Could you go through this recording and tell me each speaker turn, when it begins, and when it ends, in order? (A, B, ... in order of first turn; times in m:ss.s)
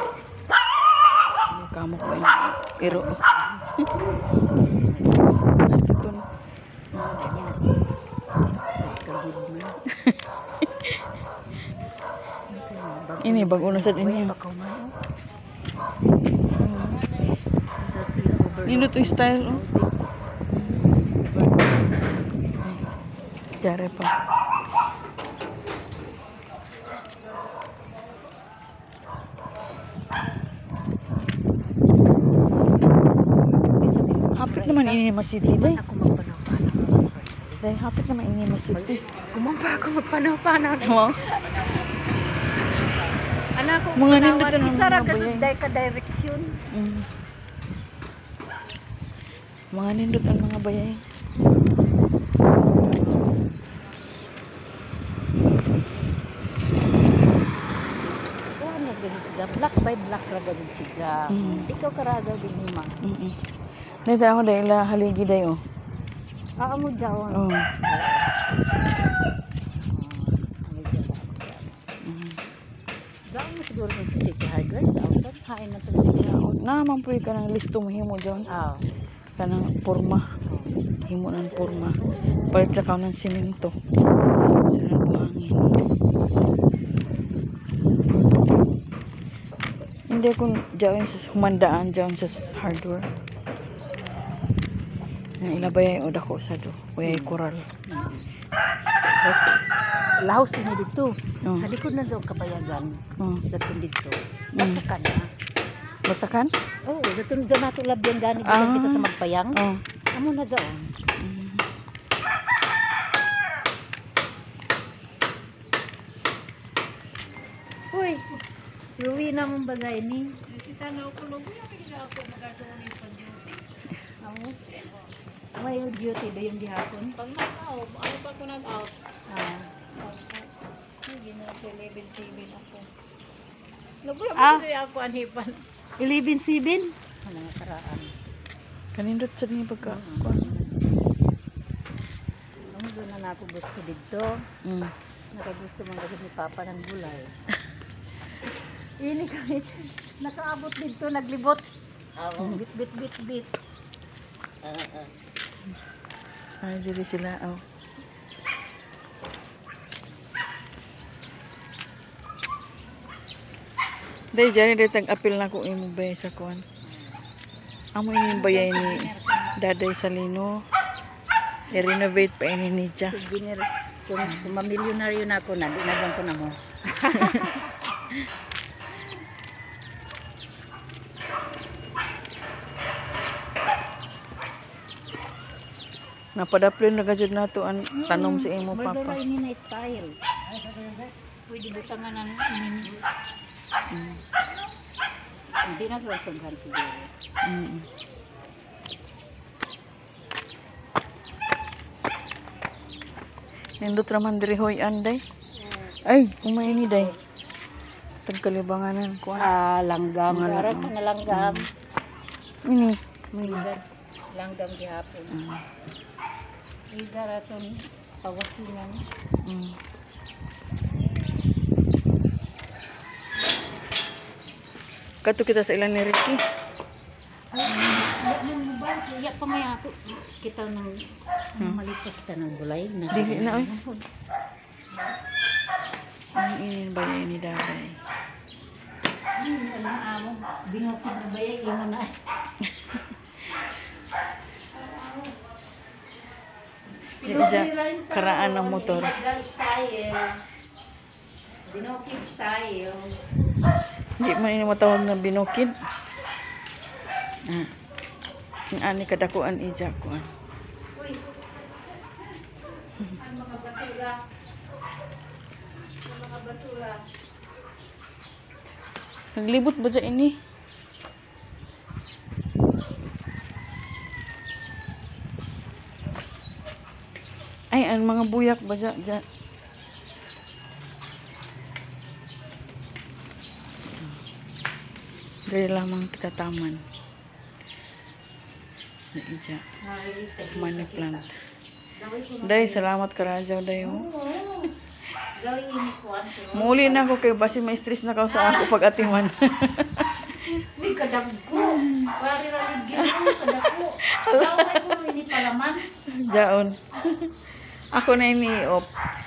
0:01.5-0:03.2 A
0:02.8-0:03.6 B
0:04.6-0:05.4 B
0:05.7-0:06.2 A
0:06.9-0:07.9 B
0:08.8-0:09.8 B
0:09.9-0:11.0 A
0:12.5-0:14.9 B
0:13.2-0:14.3 A
0:16.6-0:17.0 A
0:17.8-0:20.1 B
0:18.7-0:19.6 A
0:20.5-0:20.9 A
0:23.6-0:24.1 A
0:33.8-0:37.7 B
0:34.4-0:35.8 A
0:37.6-0:39.0 A
0:38.7-0:41.2 B
0:40.8-0:41.2 A
0:43.6-0:46.5 B
0:44.0-0:45.5 A
0:46.7-0:47.1 A
0:49.7-0:51.0 A
0:53.0-0:53.3 B
0:58.6-1:03.0 B
1:01.3-1:01.7 A
1:03.0-1:03.4 A
1:04.0-1:05.6 A
1:06.6-1:08.3 B
1:07.3-1:07.7 A
1:09.9-1:11.8 B
1:12.0-1:12.4 A
1:13.3-1:16.5 B
1:16.2-1:18.5 A
1:18.5-1:18.9 B
1:19.4-1:20.2 A
1:20.5-1:20.8 B
1:21.1-1:22.0 A
1:22.5-1:23.7 A
1:24.6-1:25.7 A
1:30.1-1:33.1 A
1:35.4-1:37.7 A
1:37.0-1:38.3 B
1:39.2-1:39.5 B
1:40.2-1:45.3 B
1:44.6-1:44.8 A
1:46.1-1:46.5 A
1:46.9-1:49.6 B
1:48.4-1:49.8 A
1:50.1-1:50.9 B
1:51.2-1:51.6 A
1:57.9-1:58.4 B
1:59.0-2:00.5 B
2:01.1-2:01.5 C
2:04.2-2:04.8 B
2:05.6-2:07.2 B
2:07.2-2:08.9 C
2:09.3-2:09.8 B
2:14.4-2:18.2 B
2:19.0-2:20.6 A
2:19.8-2:20.7 B
2:22.7-2:24.3 B
2:24.6-2:24.9 A
2:25.3-2:27.3 B
2:29.0-2:31.7 B
2:32.2-2:33.5 B
2:36.6-2:37.6 A
2:44.3-2:46.6 A
2:46.8-2:47.2 B
2:48.0-2:50.6 A
2:48.3-2:49.6 B
2:51.7-2:53.2 A
2:53.1-2:57.7 B
2:54.2-2:54.5 A
2:57.2-2:57.5 A
3:06.4-3:09.2 A
3:07.9-3:10.2 B
3:11.5-3:13.0 B
3:13.9-3:14.2 A
3:15.6-3:17.1 B
3:17.4-3:17.9 A
3:23.8-3:25.2 A
3:26.0-3:27.1 A
3:26.7-3:27.2 B
3:28.3-3:29.5 A
3:29.4-3:31.7 B
3:30.3-3:31.6 A
3:32.6-3:33.7 A
3:33.4-3:33.8 B
3:34.4-3:35.4 B
3:35.3-3:35.6 A
3:36.9-3:39.0 B
3:39.4-3:39.8 A
3:45.2-3:46.4 A
3:47.5-3:51.0 B
3:51.6-3:54.0 B
3:53.1-3:53.7 A
3:56.4-3:58.0 A
3:59.4-4:02.1 B
4:02.6-4:03.0 A
4:04.8-4:05.3 B
4:07.1-4:10.3 B
4:07.3-4:09.1 A
4:11.7-4:13.2 B
4:14.2-4:15.7 A
4:18.7-4:20.3 A
4:21.0-4:21.3 B
4:23.0-4:24.2 B
4:26.0-4:27.0 B
4:29.4-4:30.4 A
4:37.7-4:39.2 A
4:45.5-4:46.8 A
4:49.1-4:49.6 A
4:49.8-4:51.3 B
4:50.5-4:51.4 A
4:52.0-4:52.9 B
4:52.4-4:54.1 A
4:53.8-4:54.7 B
4:55.4-4:57.4 B
4:56.5-5:00.3 A
4:58.3-4:58.8 B
5:00.4-5:05.8 B
5:01.6-5:02.1 A
5:03.0-5:05.1 A
5:06.1-5:07.3 A
5:08.0-5:08.9 A